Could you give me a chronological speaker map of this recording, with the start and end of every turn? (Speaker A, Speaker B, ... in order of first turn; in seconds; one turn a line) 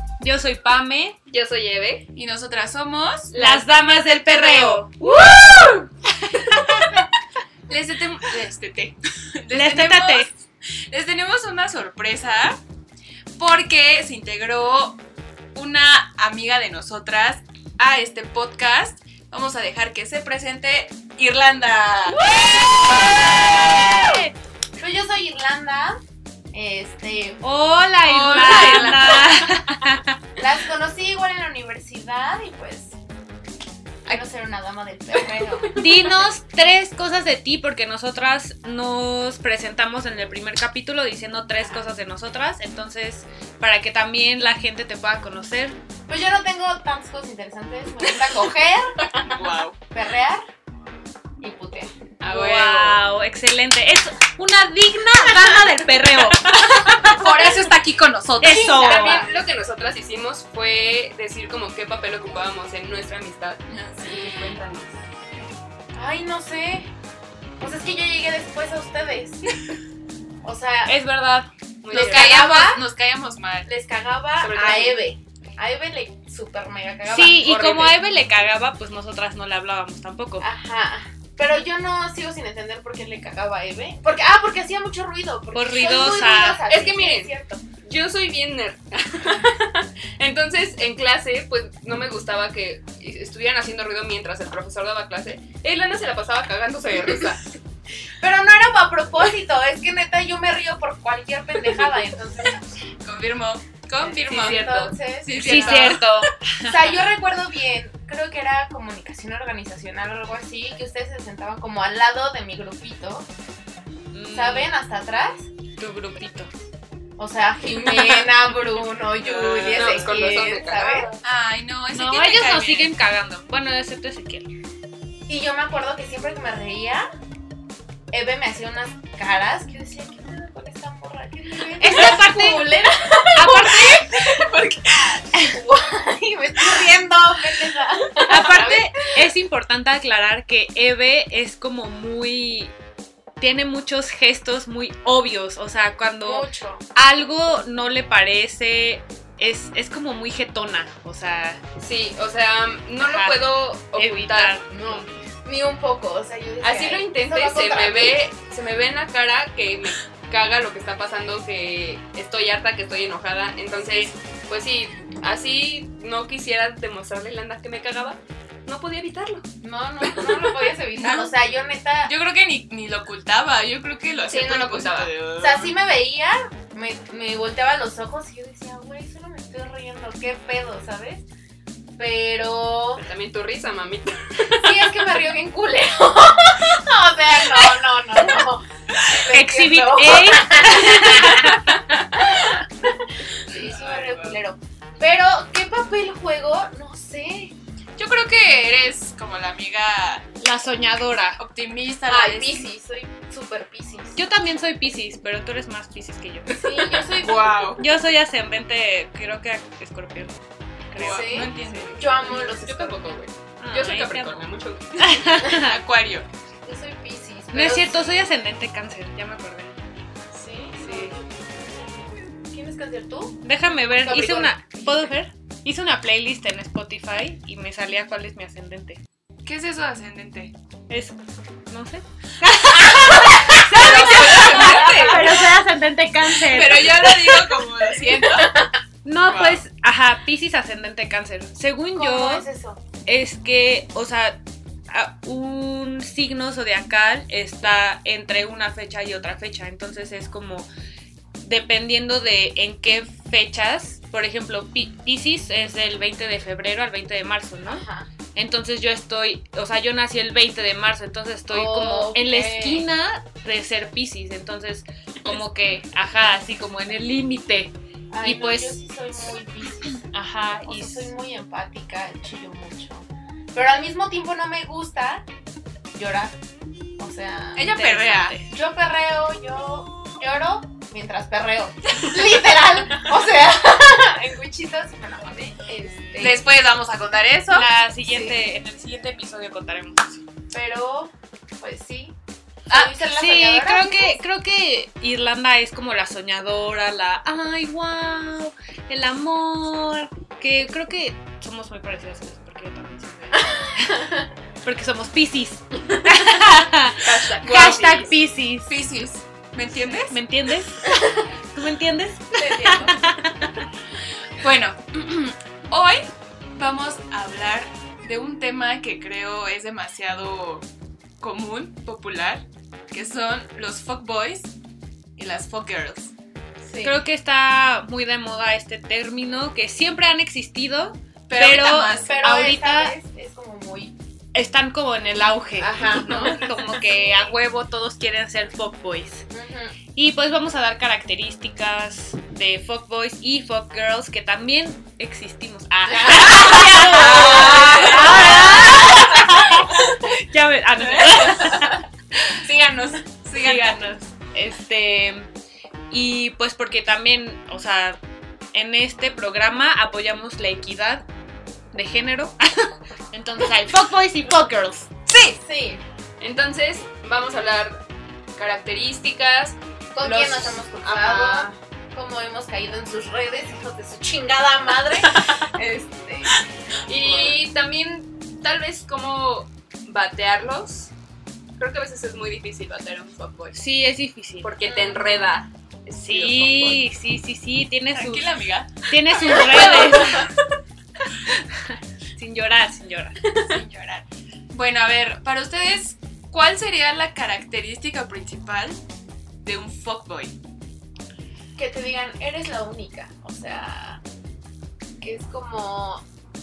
Speaker A: 0.2-1.2
Speaker B: 1.3-2.1
Speaker C: 2.1-3.3
Speaker B: 3.3-3.7
Speaker A: 3.4-5.4
Speaker B: 4.2-5.5
Speaker C: 5.1-5.8
Speaker A: 6.3-7.0
Speaker C: 7.7-10.3
Speaker A: 9.5-10.3
Speaker C: 10.9-12.6
Speaker C: 13.4-15.0
Speaker C: 15.6-23.9
Speaker A: 22.1-24.4
Speaker D: 24.8-26.0
Speaker D: 26.5-27.4
Speaker A: 27.4-30.2
Speaker C: 28.1-29.3
Speaker D: 28.4-29.3
Speaker D: 30.4-33.0
Speaker D: 34.1-36.2
Speaker A: 35.8-45.8
Speaker D: 46.1-50.4
Speaker C: 49.2-49.8
Speaker D: 51.4-51.9
Speaker B: 52.2-53.0
Speaker A: 52.2-57.7
Speaker C: 56.5-58.8
Speaker A: 58.4-59.3
Speaker D: 58.4-59.3
Speaker B: 58.7-65.0
Speaker C: 63.7-64.2
Speaker D: 66.0-66.9
Speaker D: 67.6-69.6
Speaker D: 70.4-71.0
Speaker A: 70.9-71.5
Speaker B: 71.8-72.4
Speaker D: 71.9-72.9
Speaker C: 71.9-73.7
Speaker D: 73.7-77.9
Speaker B: 74.4-75.0
Speaker A: 77.1-80.5
Speaker B: 77.6-77.9
Speaker D: 80.4-87.6
Speaker A: 85.5-86.6
Speaker B: 86.7-97.5
Speaker D: 98.2-102.6
Speaker C: 103.0-104.6
Speaker D: 104.0-106.0
Speaker B: 104.2-105.0
Speaker C: 105.2-106.2
Speaker A: 105.3-106.9
Speaker D: 106.6-113.3
Speaker A: 114.1-114.7
Speaker D: 114.3-115.5
Speaker A: 115.8-116.5
Speaker D: 117.2-121.1
Speaker C: 117.9-118.2
Speaker C: 119.2-120.3
Speaker B: 119.7-121.2
Speaker C: 121.2-122.9
Speaker A: 121.9-124.5
Speaker D: 125.3-127.1
Speaker D: 128.1-134.3
Speaker A: 131.8-134.1
Speaker C: 134.2-135.3
Speaker D: 135.4-139.2
Speaker A: 138.2-142.7
Speaker A: 143.4-151.6
Speaker D: 146.2-146.8
Speaker B: 151.8-154.6
Speaker A: 153.0-155.1
Speaker D: 154.7-158.3
Speaker B: 156.6-169.4
Speaker A: 163.8-164.1
Speaker D: 169.6-172.1
Speaker C: 171.0-171.3
Speaker C: 172.1-175.8
Speaker B: 174.3-175.1
Speaker D: 175.4-181.2
Speaker D: 182.0-183.0
Speaker B: 183.0-185.0
Speaker D: 184.5-191.6
Speaker A: 189.1-191.7
Speaker D: 192.1-197.6
Speaker C: 193.5-194.4
Speaker C: 198.0-200.3
Speaker A: 200.4-201.4
Speaker C: 201.4-202.7
Speaker D: 202.1-204.2
Speaker A: 204.2-206.6
Speaker D: 206.5-207.8
Speaker C: 207.2-207.9
Speaker A: 207.8-210.4
Speaker A: 210.9-211.8
Speaker C: 211.0-212.3
Speaker D: 211.0-213.2
Speaker B: 211.7-215.2
Speaker A: 213.6-215.8
Speaker C: 215.5-216.3
Speaker D: 216.7-218.1
Speaker A: 217.5-219.7
Speaker D: 220.3-223.4
Speaker A: 220.8-221.2
Speaker A: 223.4-229.0
Speaker D: 223.9-225.1
Speaker C: 229.4-230.5
Speaker A: 230.9-237.3
Speaker C: 232.9-235.4
Speaker B: 233.7-235.2
Speaker D: 234.1-235.5
Speaker C: 236.3-238.6
Speaker D: 238.1-238.7
Speaker A: 239.1-242.5
Speaker C: 239.2-239.6
Speaker D: 241.9-242.8
Speaker A: 243.1-250.7
Speaker A: 251.4-257.8
Speaker D: 257.7-258.1
Speaker A: 258.4-268.8
Speaker D: 261.5-262.9
Speaker D: 268.1-275.3
Speaker A: 270.1-271.1
Speaker D: 275.9-276.4
Speaker D: 277.0-277.9
Speaker C: 277.6-278.4
Speaker A: 277.6-278.5
Speaker D: 278.5-286.4
Speaker C: 286.2-287.7
Speaker A: 287.5-290.2
Speaker D: 288.1-288.4
Speaker D: 290.5-292.1
Speaker D: 292.7-294.2
Speaker C: 292.7-292.9
Speaker A: 293.1-304.1
Speaker D: 303.4-304.3
Speaker A: 304.6-308.8
Speaker B: 307.0-307.9
Speaker C: 307.4-308.1
Speaker C: 308.7-310.2
Speaker A: 309.8-310.9
Speaker D: 310.9-311.2
Speaker A: 311.5-313.7
Speaker D: 312.3-313.1
Speaker C: 314.4-320.7
Speaker C: 321.2-324.5
Speaker C: 325.2-326.1
Speaker D: 326.6-327.0
Speaker A: 326.8-332.9
Speaker C: 331.3-332.1
Speaker D: 332.0-333.9
Speaker A: 334.3-339.3
Speaker D: 335.6-337.2
Speaker C: 336.1-336.4
Speaker D: 339.3-339.8
Speaker A: 339.9-352.4
Speaker D: 345.9-349.2
Speaker C: 346.4-348.3
Speaker C: 350.8-351.8
Speaker C: 352.3-353.9
Speaker A: 353.4-355.3
Speaker A: 355.9-358.0
Speaker A: 358.5-361.1
Speaker A: 361.7-364.9
Speaker C: 365.1-365.4
Speaker D: 365.4-365.8
Speaker B: 366.2-367.8
Speaker B: 368.4-371.5
Speaker D: 369.9-376.4
Speaker B: 376.9-380.9
Speaker B: 381.6-383.6
Speaker A: 383.5-384.5
Speaker B: 384.4-386.8
Speaker D: 384.6-385.3
Speaker A: 386.0-388.3
Speaker C: 387.9-389.9
Speaker A: 388.9-390.3
Speaker D: 389.2-390.2
Speaker B: 389.2-390.2
Speaker A: 391.2-393.2
Speaker C: 393.4-398.8
Speaker C: 399.4-400.4
Speaker D: 401.6-404.0
Speaker D: 405.0-406.1